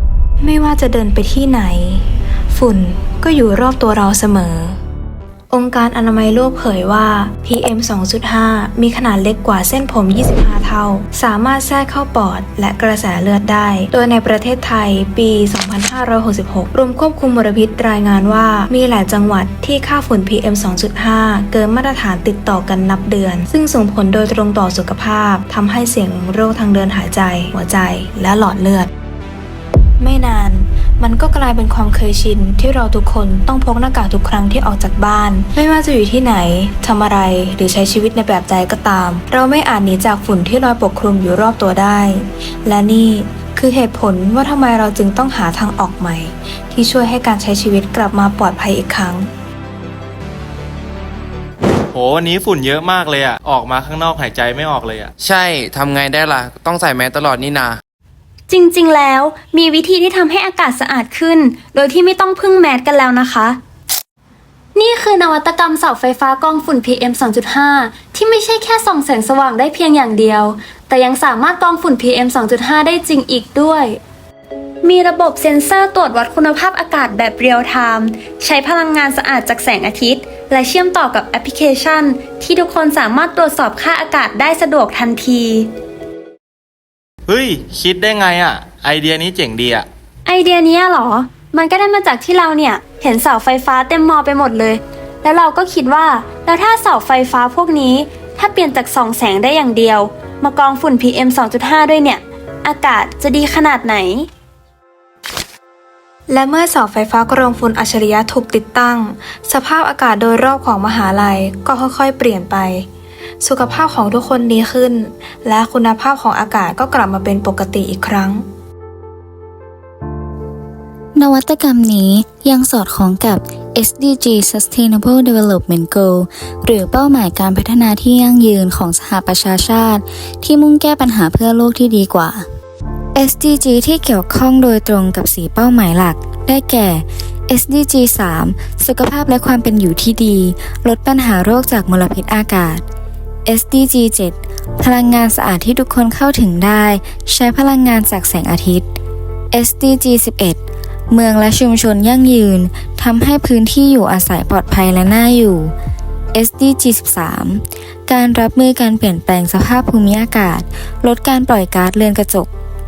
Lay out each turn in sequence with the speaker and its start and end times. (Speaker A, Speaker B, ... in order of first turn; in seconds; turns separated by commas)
Speaker A: 0.4-4.8, Speaker A: 5.5-28.9, Speaker A: 30.0-49.3, Speaker B: 51.9-55.1, Speaker C: 55.2-57.8, Speaker D: 58.5-63.6, Speaker D: 64.8-74.0, Speaker D: 74.8-85.7, Speaker B: 87.3-89.9, Speaker D: 90.2-104.3, Speaker A: 106.3-112.9, Speaker A: 113.4-118.5, Speaker E: 121.2-132.5, Speaker E: 133.2-142.8, Speaker E: 143.5-148.9, Speaker E: 149.5-150.6, Speaker E: 151.1-155.7, Speaker E: 156.3-162.5